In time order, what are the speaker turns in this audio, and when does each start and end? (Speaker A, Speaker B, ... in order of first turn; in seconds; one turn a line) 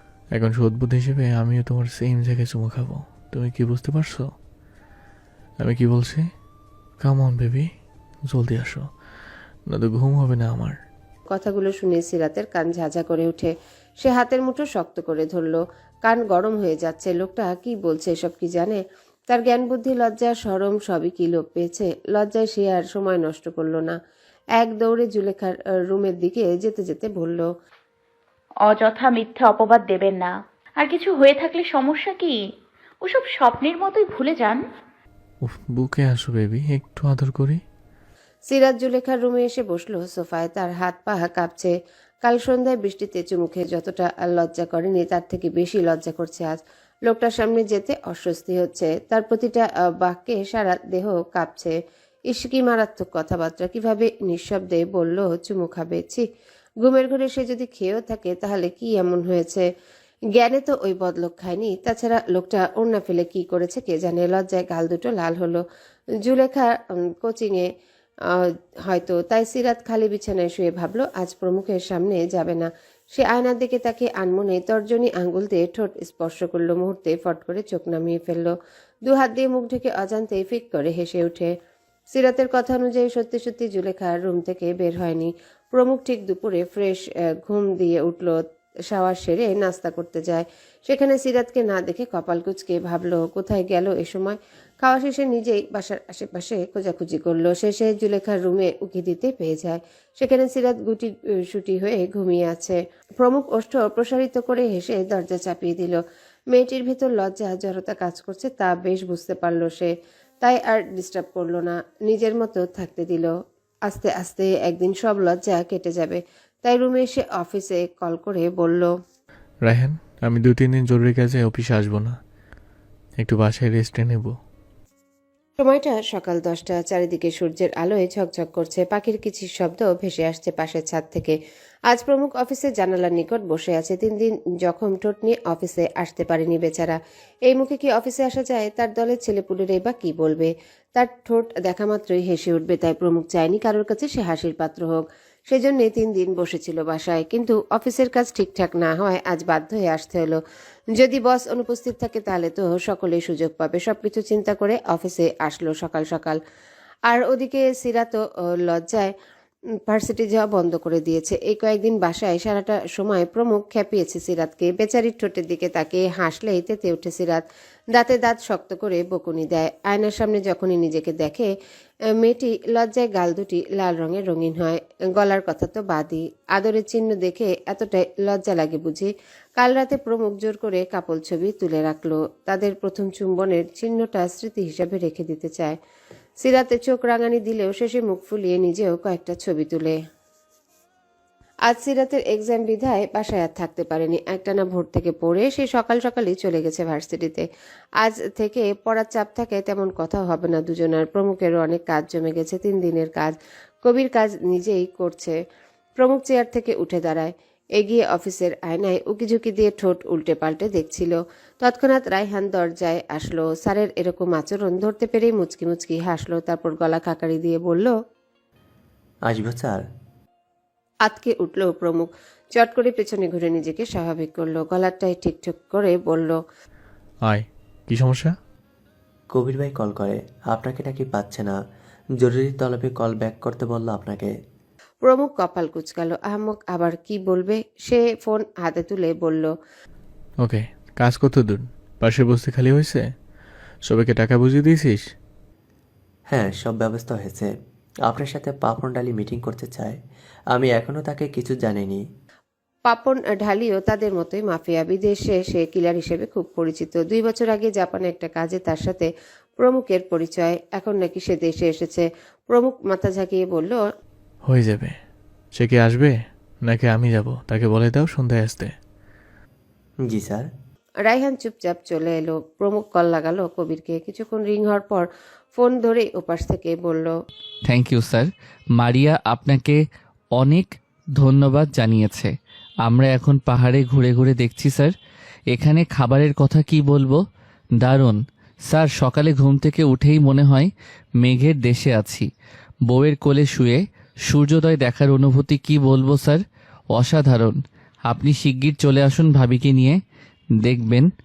Speaker A: 0.3-4.3
Speaker A: 5.6-6.2
Speaker A: 7.0-7.7
Speaker A: 8.3-8.9
Speaker A: 9.7-10.8
Speaker B: 11.3-24.0
Speaker B: 24.6-27.5
Speaker C: 28.6-32.4
Speaker C: 33.0-34.6
Speaker A: 35.4-37.6
Speaker B: 38.5-51.7
Speaker B: 52.3-56.2
Speaker B: 56.8-59.7
Speaker B: 60.3-65.6
Speaker B: 66.2-67.7
Speaker B: 68.3-78.5
Speaker B: 79.0-81.5
Speaker B: 82.1-113.3
Speaker B: 113.9-118.9
Speaker A: 119.6-122.2
Speaker A: 123.2-124.3
Speaker B: 125.6-131.4
Speaker B: 131.9-150.4
Speaker B: 150.9-156.4
Speaker B: 157.1-159.1
Speaker B: 159.9-171.5
Speaker B: 172.2-185.8
Speaker B: 186.4-190.0
Speaker B: 191.7-197.4
Speaker B: 198.0-205.3
Speaker B: 206.0-217.9
Speaker D: 219.2-219.8
Speaker B: 221.0-226.4
Speaker A: 227.2-228.3
Speaker D: 229.3-231.6
Speaker D: 232.2-234.3
Speaker B: 235.0-239.5
Speaker A: 240.4-243.0
Speaker A: 243.9-245.0
Speaker D: 246.3-247.5
Speaker D: 248.1-250.0
Speaker D: 250.5-252.0
Speaker B: 252.9-263.8
Speaker A: 264.5-264.9
Speaker A: 265.5-266.1
Speaker A: 266.6-268.7
Speaker D: 270.0-270.5
Speaker B: 271.0-277.1
Speaker E: 277.7-279.8
Speaker E: 280.3-282.3
Speaker E: 282.8-284.9
Speaker E: 285.5-287.2
Speaker E: 287.8-292.3
Speaker E: 292.9-296.4
Speaker E: 296.9-300.0
Speaker E: 300.6-301.1